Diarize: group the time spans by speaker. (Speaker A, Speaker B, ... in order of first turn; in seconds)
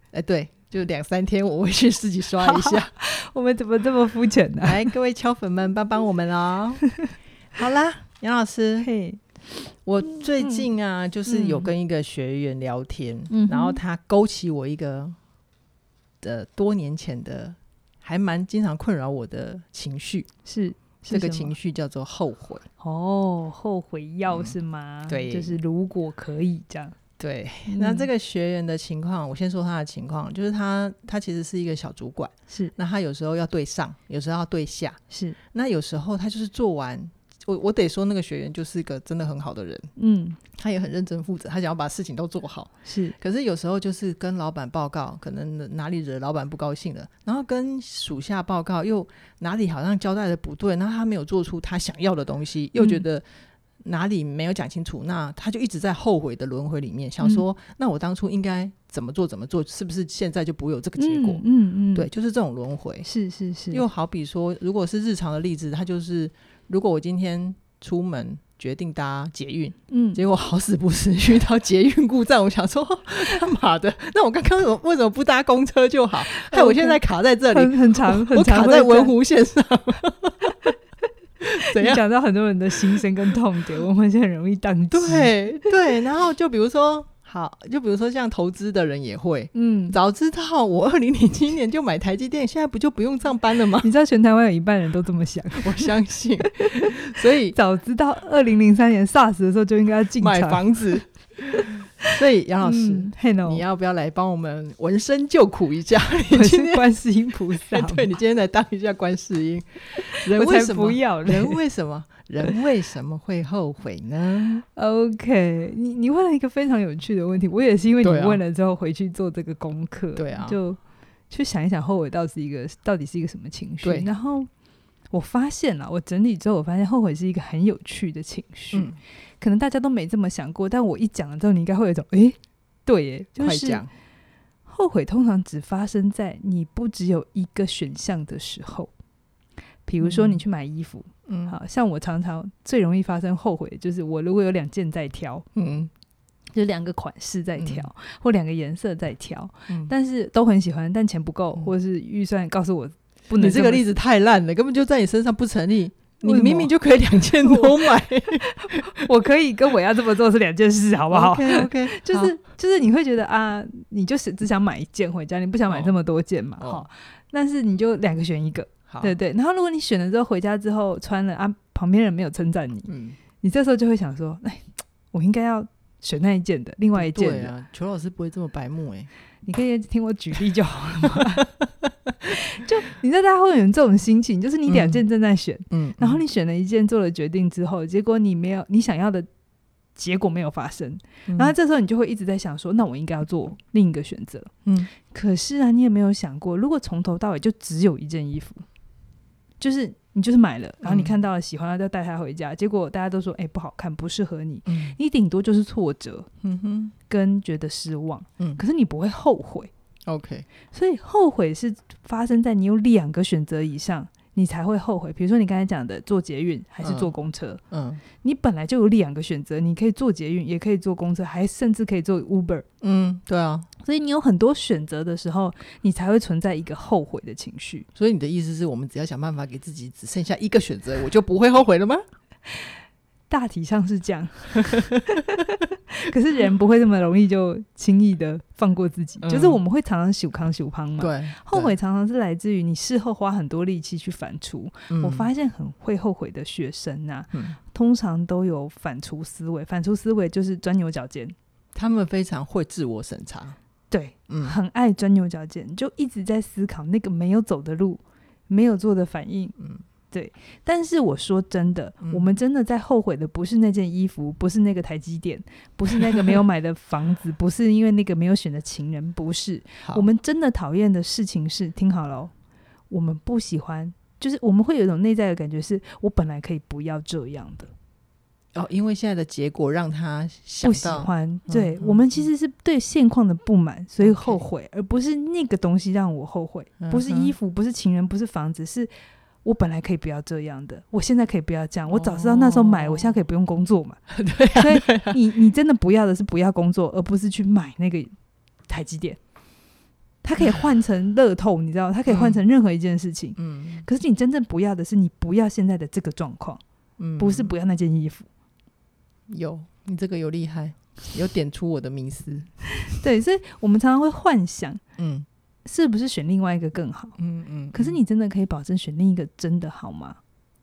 Speaker A: 0.1-2.9, 4.6-6.9, 7.5-8.9, 9.8-15.2, 16.2-20.3, 21.1-22.6, 24.3-24.6, 25.1-25.6, 27.2-35.0, 35.5-39.9, 40.5-53.2, 53.8-61.4, 61.9-63.1, 63.7-80.6, 81.4-82.0, 84.9-93.9, 95.6-97.6, 100.2-101.1, 102.0-106.9, 107.5-114.6, 118.0-118.4, 120.2-120.6, 123.8-124.1, 128.7-129.0, 133.4-133.9, 140.0-140.4, 141.3-141.6, 145.6-145.9, 147.6-147.9, 153.4-159.1, 161.1-162.4, 166.6-166.9, 172.9-173.2, 176.9-179.1, 181.9-182.1, 184.7-185.0, 185.7-186.2, 191.3-191.5, 194.7-194.9, 200.8-201.2, 204.7-205.0, 206.4-206.9, 210.1-210.5, 216.8-217.1, 217.7-218.0, 222.8-223.7, 228.0-232.1, 239.2-239.6, 241.0-241.7, 244.9-245.3, 247.3-247.6, 251.8-253.6, 254.3-254.6, 259.6-259.8, 278.6-282.3, 284.0-284.4, 286.8-287.3, 291.9-293.2, 294.1-295.2, 300.4-300.6, 302.1-302.4, 303.4-303.9, 307.0-307.5, 309.3-312.5, 315.0-315.3, 317.2-318.0
Speaker B: 2.4-4.9, 8.8-9.2, 11.3-11.7, 13.3-13.8, 20.4-21.5, 22.8-27.0, 27.7-28.1, 32.5-32.7, 35.1-35.4, 40.0-40.4, 42.9-43.2, 52.8-53.0, 61.0-62.1, 63.0-63.8, 69.9-70.2, 76.3-79.1, 81.7-85.3, 89.5-90.0, 93.8-96.0, 96.6-96.9, 97.5-100.9, 102.6-103.6, 106.3-108.1, 110.0-111.6, 114.8-124.5, 125.1-133.8, 134.7-138.9, 139.9-145.5, 146.5-153.9, 156.2-172.9, 173.4-177.5, 179.4-181.5, 182.3-189.3, 190.0-198.7, 199.6-206.3, 207.1-209.7, 210.7-217.6, 218.2-222.7, 223.8-227.9, 233.3-251.3, 253.9-259.6, 260.1-272.3, 272.9-277.7, 280.6-288.9, 289.4-294.0, 294.5-298.1, 298.7-299.2, 300.2-306.6, 307.2-308.3, 312.9-314.8, 315.6-317.2, 317.7-320.2